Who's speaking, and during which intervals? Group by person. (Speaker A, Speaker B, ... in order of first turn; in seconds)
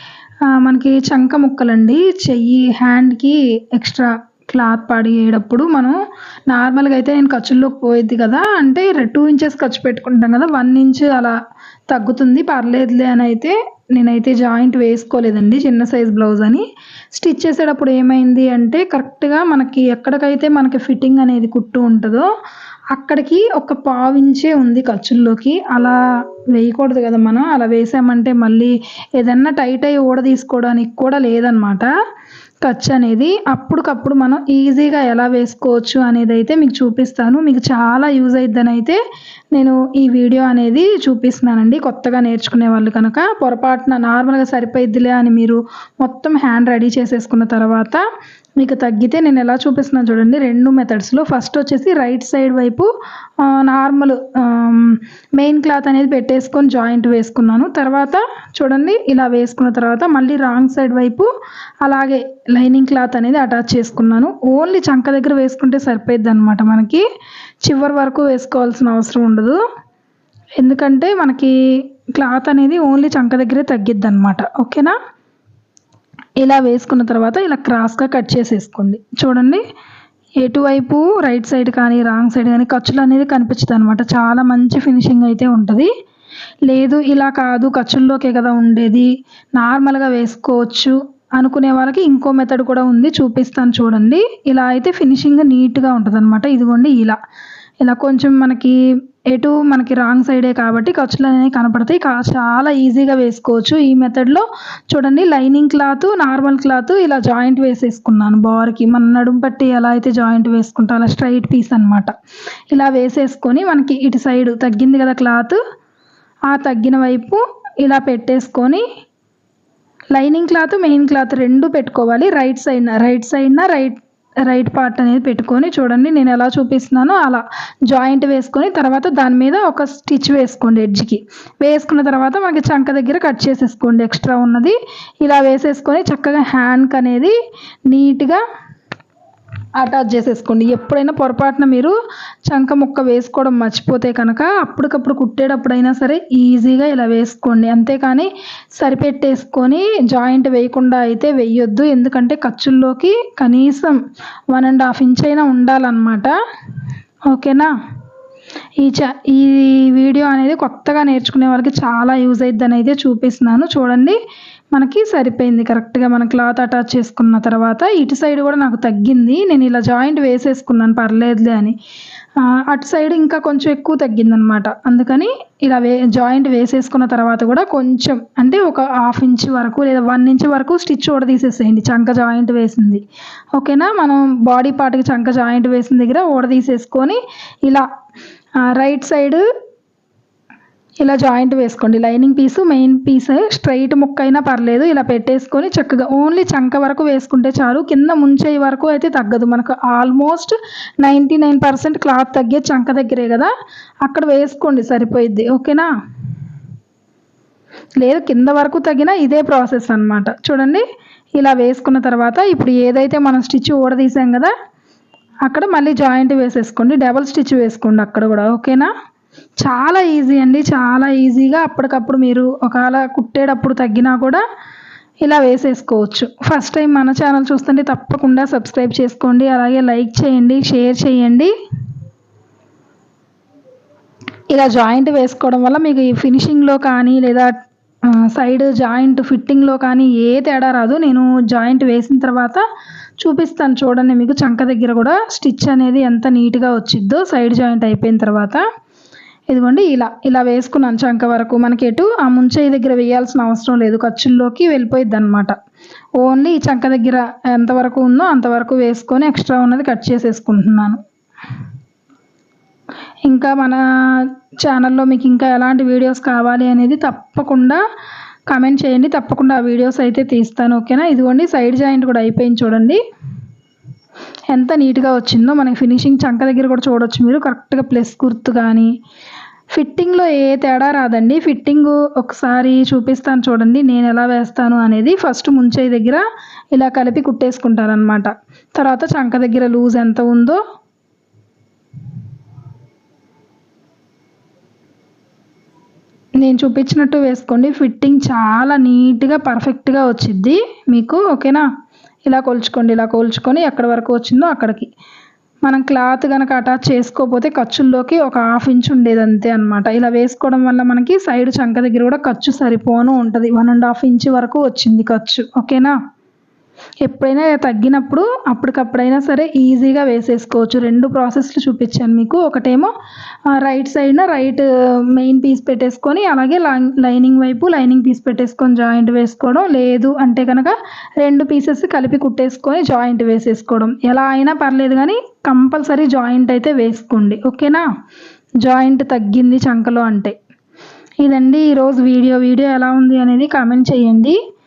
Speaker A: 0.5-11.3, 11.9-22.3, 22.9-26.0, 26.5-31.9, 32.6-39.0, 39.5-48.0, 48.6-52.9, 53.4-61.3, 61.8-67.0, 67.7-69.6, 70.6-71.5, 72.2-75.0, 76.4-79.6, 80.4-85.9, 86.7-97.2, 97.8-98.8, 99.3-112.1, 112.7-115.6, 116.5-118.8, 120.1-137.3, 137.9-138.4, 139.8-141.9, 142.5-154.0, 154.5-156.3, 157.3-157.7, 158.8-164.2, 164.7-171.8, 172.4-183.0, 183.6-187.9, 188.8-189.4, 191.0-203.5, 204.1-205.9, 208.0-210.8, 211.4-214.5, 215.5-218.9, 219.6-224.4, 225.2-231.5, 234.5-237.5, 238.3-242.6, 243.2-248.6, 249.5-255.6, 256.2-261.0, 263.3-267.8, 268.5-273.0, 274.5-278.9, 279.8-286.2, 286.8-290.6, 296.4-301.6, 302.3-304.9, 305.7-315.9, 317.1-322.9, 323.5-337.9, 338.6-340.4, 341.2-344.4